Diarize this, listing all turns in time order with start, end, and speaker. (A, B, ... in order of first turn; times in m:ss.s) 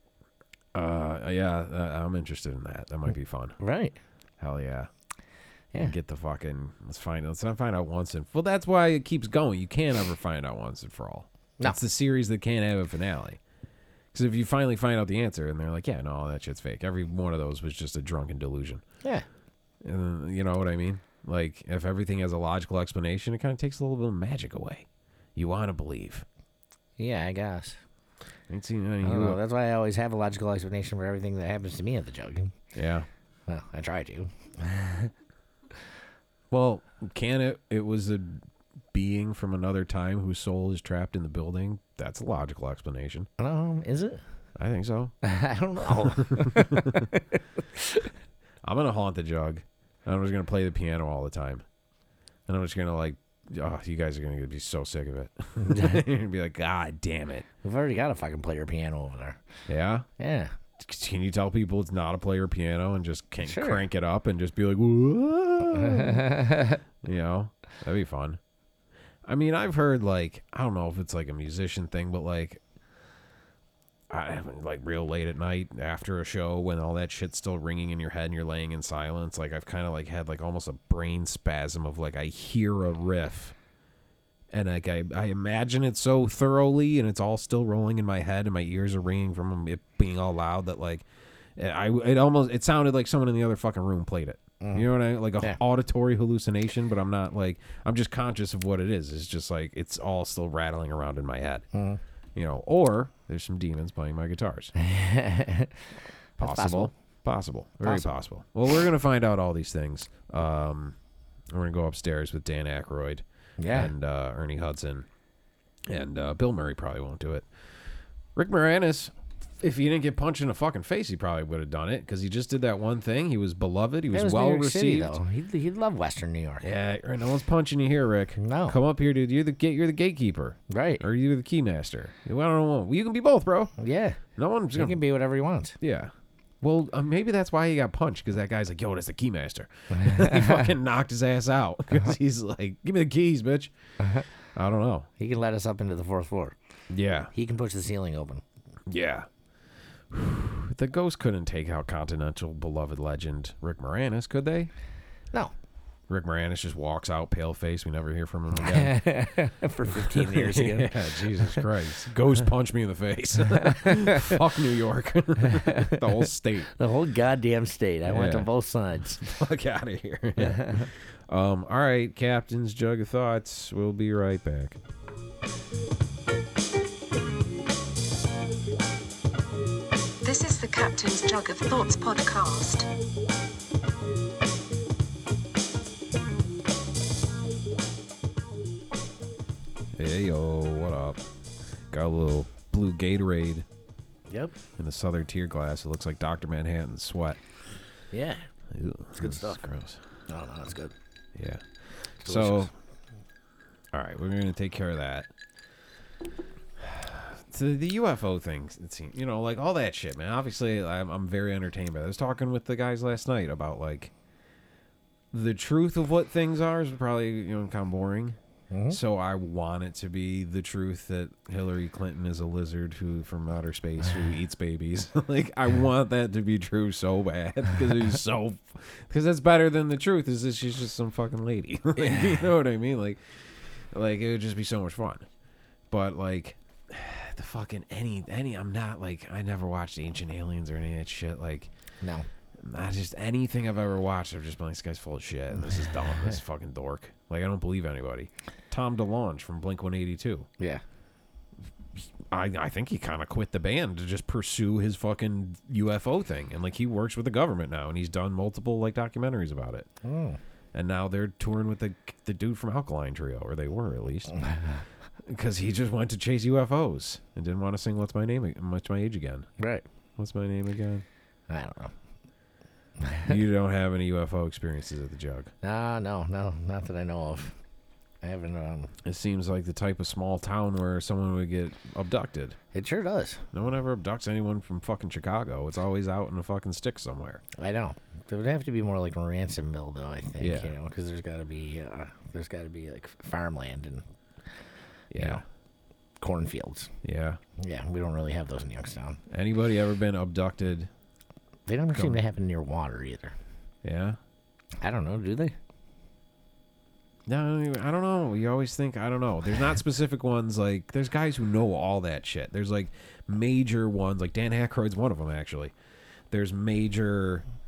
0:00.7-0:03.6 A
0:03.6-0:04.0 B
0:04.4-0:04.9 A
0:05.8-0:13.4 A
0:14.1-0:18.8 A
0:19.8-0:26.2 A
0:27.0-0:27.8 B
0:28.5-0:29.4 A
0:29.0-0:32.5 B
0:32.7-0:33.1 A
0:33.5-0:35.1 B
0:36.5-0:43.3 A
0:43.4-0:44.2 B
0:44.6-0:45.1 A
0:45.2-0:48.1 B
0:45.9-0:47.1 A
0:48.6-0:51.6 A
0:52.5-0:57.4 A
0:55.6-0:56.0 B
0:57.6-0:59.4 B
0:59.7-1:00.0 A
1:00.2-1:00.6 B
1:00.8-1:06.4 A
1:03.4-1:03.8 B
1:05.7-1:06.8 B
1:07.0-1:08.4 A
1:09.2-1:12.6 A
1:14.1-1:23.5 A
1:24.5-1:31.0 A
1:31.6-1:41.6 A
1:34.6-1:34.9 B
1:41.7-1:42.0 B
1:42.3-1:44.7 A
1:44.8-1:45.9 B
1:46.4-1:46.9 B
1:46.4-1:51.0 A
1:47.8-1:48.1 B
1:51.5-1:55.1 A
1:53.6-1:53.9 B
1:55.8-1:57.5 A
1:58.4-2:05.2 A
2:04.1-2:06.7 B
2:06.6-2:13.7 A
2:08.4-2:08.8 B
2:10.7-2:11.0 B
2:13.8-2:14.2 B
2:14.3-2:15.0 A
2:14.7-2:15.8 B
2:15.8-2:23.7 A
2:19.9-2:20.7 B
2:24.0-2:24.2 B
2:24.5-2:25.1 A
2:25.2-2:26.6 B
2:26.9-2:27.3 A
2:27.3-2:28.4 B
2:28.9-2:29.3 A
2:30.1-2:34.7 A
2:36.1-2:39.0 A
2:38.6-2:41.6 B
2:39.9-2:46.7 A
2:43.6-2:44.4 B
2:45.5-2:46.0 B
2:46.7-2:49.2 B
2:48.0-2:48.5 A
2:49.2-2:54.8 A
2:50.4-2:50.9 B
3:00.2-3:02.9 C
3:10.0-3:11.2 A
3:11.9-3:13.6 A
3:14.3-3:14.6 B
3:14.8-3:17.4 A
3:18.1-3:18.4 B
3:18.7-3:20.0 A
3:19.2-3:19.6 B
3:20.3-3:20.9 B
3:21.3-3:22.7 A
3:22.2-3:22.7 B
3:23.9-3:25.3 A
3:26.8-3:34.1 A
3:35.3-3:38.4 A
3:38.7-3:39.0 B
3:38.9-3:55.2 A
3:52.0-3:52.4 B
3:55.9-4:01.7 A
4:02.0-4:02.3 B
4:02.6-4:10.5 A
4:05.8-4:06.4 B
4:12.0-4:19.9 A
4:20.0-4:20.4 B
4:20.7-4:24.4 A
4:24.3-4:24.8 B
4:25.2-4:29.5 A
4:29.6-4:29.8 B
4:30.2-4:31.0 A
4:31.5-4:31.9 B
4:33.0-4:33.3 B
4:33.2-4:35.5 A
4:35.6-4:37.6 B
4:38.2-4:38.9 B
4:39.0-4:42.6 A
4:42.7-4:43.4 B
4:43.5-4:47.4 A
4:47.6-4:54.0 B
4:50.4-4:50.7 A
4:55.1-4:55.4 A
4:55.1-4:55.4 B
4:56.2-4:56.9 B
4:57.0-4:57.4 A
4:57.6-4:59.2 B
4:59.3-5:00.9 A
5:01.7-5:03.3 B
5:01.9-5:02.2 A
5:03.8-5:04.2 A
5:04.8-5:05.5 B
5:07.3-5:15.7 A
5:16.3-5:17.4 A